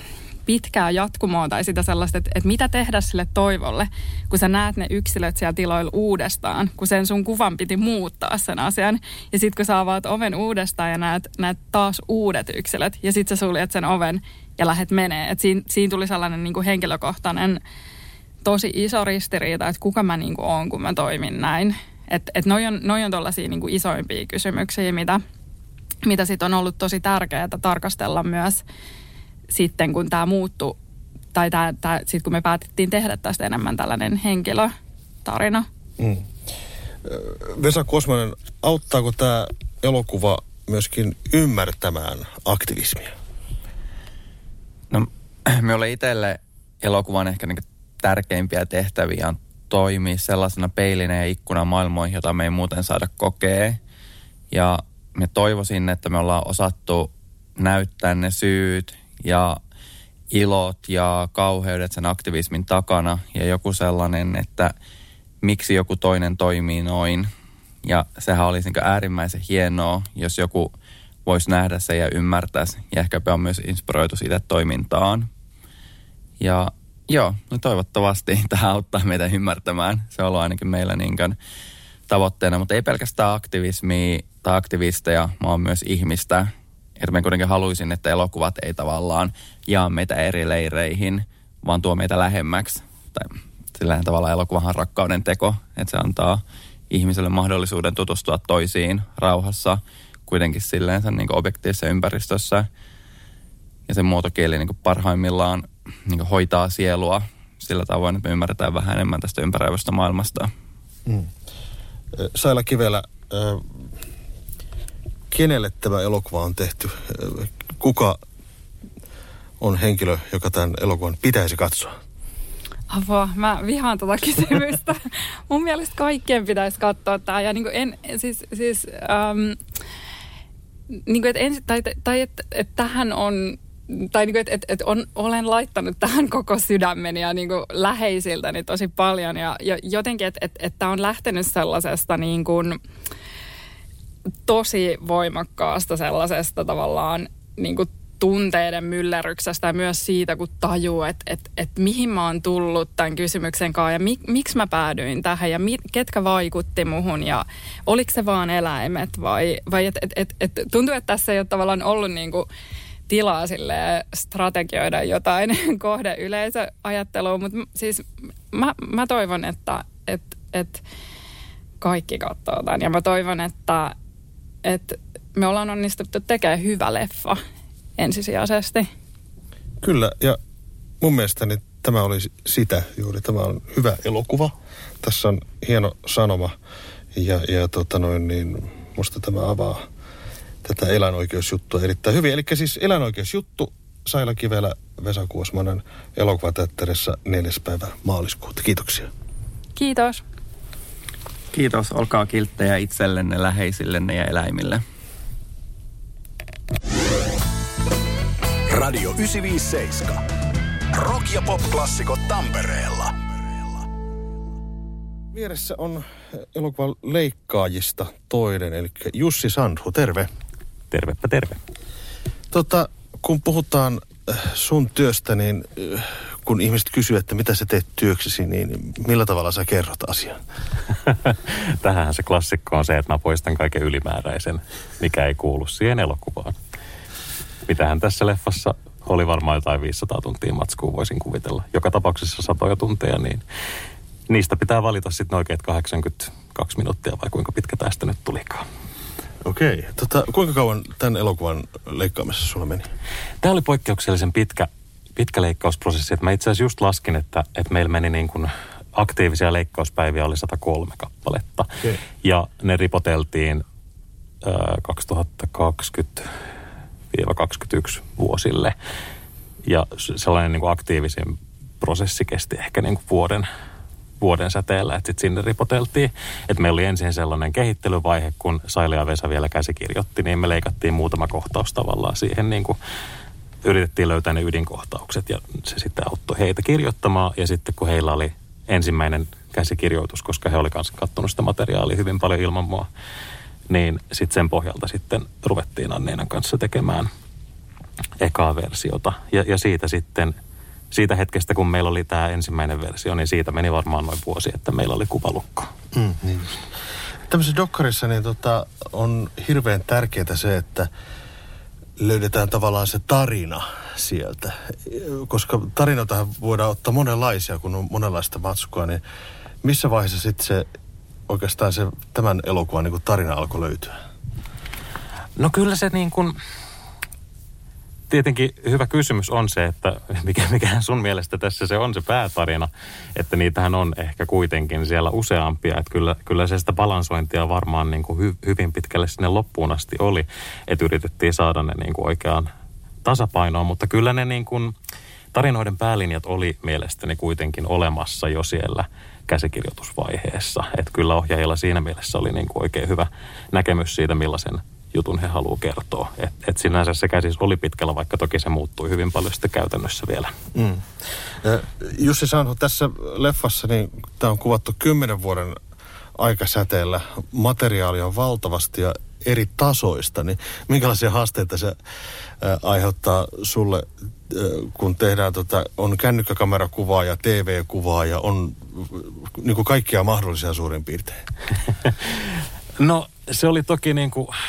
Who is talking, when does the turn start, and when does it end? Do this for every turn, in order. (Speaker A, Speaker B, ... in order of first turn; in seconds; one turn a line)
Speaker A: 0.5-17.6
Speaker A: 18.4-25.2
Speaker A: 26.0-28.6
Speaker A: 29.5-30.8
Speaker A: 31.3-34.7
Speaker A: 35.2-35.7
Speaker B: 36.0-36.3
Speaker B: 37.0-43.1
Speaker C: 44.9-53.8
Speaker C: 54.5-59.6
Speaker C: 60.3-64.7
Speaker C: 65.4-67.3
Speaker C: 67.8-70.7
Speaker C: 71.2-75.3
Speaker C: 76.4-81.4
Speaker C: 82.1-102.7
Speaker C: 103.9-110.5
Speaker B: 111.0-111.3
Speaker B: 112.1-114.0
Speaker B: 115.3-118.2
Speaker B: 119.6-122.0
Speaker A: 122.9-129.6
Speaker A: 131.1-142.8
Speaker A: 144.4-162.5
Speaker A: 163.1-170.8
Speaker A: 171.8-173.9
Speaker A: 174.6-177.4
Speaker A: 178.0-178.9
Speaker B: 179.8-180.4
Speaker B: 181.0-186.6
Speaker B: 187.1-189.8
Speaker B: 190.6-199.1
Speaker A: 199.8-200.2
Speaker C: 201.5-204.8
Speaker D: 208.7-210.2
Speaker D: 210.9-213.8
Speaker B: 215.3-220.3
Speaker E: 220.9-221.6
Speaker B: 222.5-230.4
Speaker E: 231.1-236.6
Speaker E: 237.7-243.4
Speaker E: 244.3-248.6
Speaker B: 249.4-252.9
Speaker E: 253.4-263.6
Speaker E: 264.4-266.3
Speaker E: 267.1-268.7
Speaker E: 269.6-273.4
Speaker E: 274.2-282.8
Speaker E: 283.6-292.9
Speaker E: 293.7-297.1
Speaker E: 298.2-300.4
Speaker E: 300.9-305.7
Speaker B: 305.9-306.6
Speaker B: 307.3-310.9
Speaker B: 312.0-319.0
Speaker B: 319.6-320.7
Speaker B: 321.3-323.9
Speaker E: 325.4-326.4
Speaker E: 328.1-342.5
Speaker E: 343.0-344.7
Speaker E: 345.3-360.3
Speaker B: 360.5-360.9
Speaker B: 361.4-365.6
Speaker B: 366.2-371.8
Speaker B: 372.4-381.2
Speaker E: 382.8-384.3